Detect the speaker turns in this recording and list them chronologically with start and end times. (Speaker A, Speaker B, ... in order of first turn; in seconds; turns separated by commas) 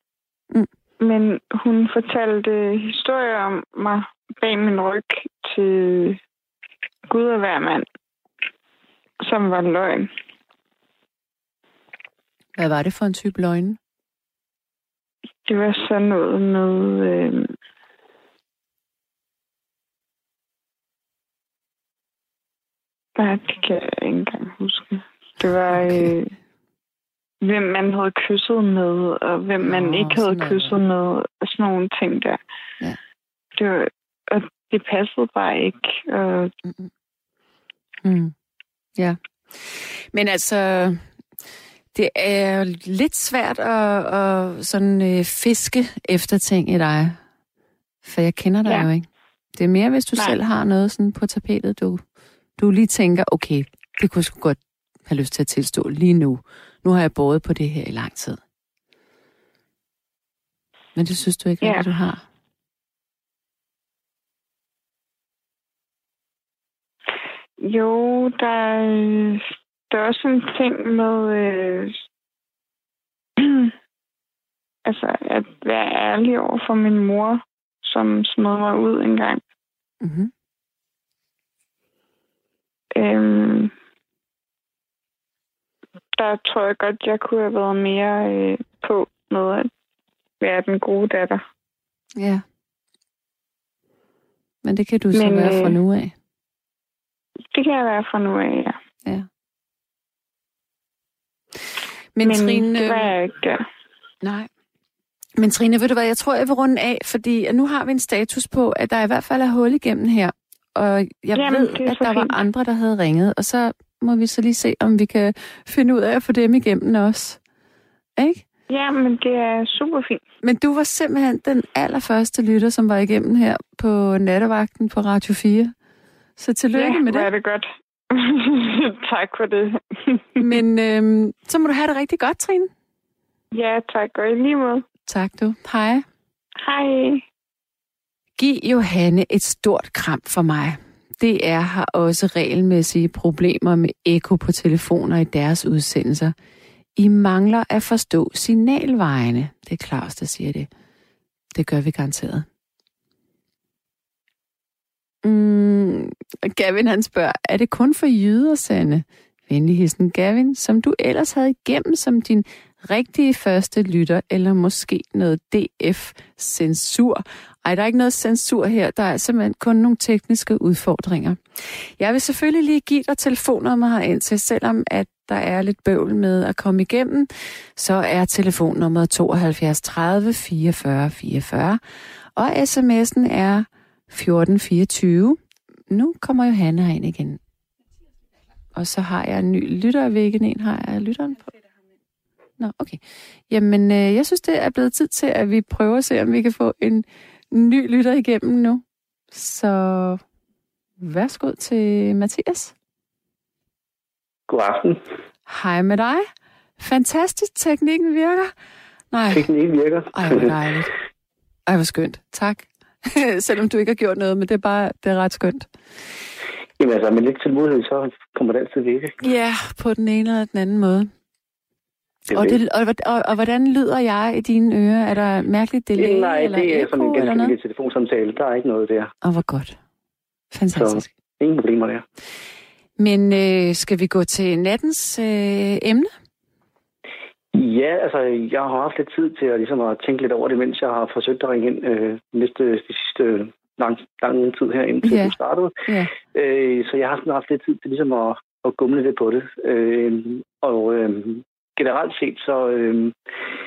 Speaker A: 1.0-6.2, Speaker A: 7.1-7.8, Speaker A: 9.2-10.1, Speaker B: 12.6-13.8, Speaker A: 15.5-17.5, Speaker A: 23.2-26.3, Speaker B: 25.7-26.1, Speaker A: 27.4-32.4, Speaker B: 29.6-30.7, Speaker A: 33.5-36.5, Speaker B: 36.6-36.9, Speaker B: 38.0-38.3, Speaker B: 39.0-41.0, Speaker B: 41.9-47.2, Speaker B: 48.0-52.0, Speaker B: 52.6-58.4, Speaker B: 60.9-62.2, Speaker A: 67.6-72.0, Speaker A: 73.4-73.7, Speaker A: 74.8-79.4, Speaker B: 80.0-80.3, Speaker A: 82.9-83.7, Speaker A: 86.2-89.7, Speaker A: 90.4-91.4, Speaker B: 92.2-92.4, Speaker B: 94.6-96.1, Speaker A: 95.1-95.8, Speaker A: 97.5-98.8, Speaker B: 102.1-103.1, Speaker A: 102.2-103.6, Speaker B: 104.2-104.5, Speaker B: 105.4-117.4, Speaker A: 111.3-112.3, Speaker B: 118.2-118.4, Speaker A: 118.7-120.2, Speaker B: 120.4-125.7, Speaker B: 126.4-127.3, Speaker A: 126.7-130.5, Speaker B: 130.4-132.7, Speaker A: 133.5-134.8, Speaker B: 135.1-136.0, Speaker A: 136.6-137.2, Speaker B: 138.4-146.3, Speaker B: 147.0-150.7, Speaker B: 151.5-152.4, Speaker B: 155.2-181.8, Speaker B: 182.3-187.4, Speaker B: 188.7-191.5, Speaker B: 192.6-200.2, Speaker B: 201.0-202.7, Speaker C: 204.5-205.0, Speaker B: 205.5-206.3, Speaker B: 206.8-208.5, Speaker B: 209.1-209.5, Speaker C: 209.3-210.6, Speaker B: 210.1-210.9, Speaker B: 211.7-215.7, Speaker C: 216.8-219.2, Speaker B: 219.2-221.1, Speaker C: 222.3-222.6, Speaker B: 222.3-227.5, Speaker C: 225.9-229.1, Speaker B: 229.2-229.8, Speaker B: 230.5-231.1, Speaker C: 230.7-232.0, Speaker B: 233.0-236.1, Speaker C: 237.5-253.1, Speaker B: 245.0-246.1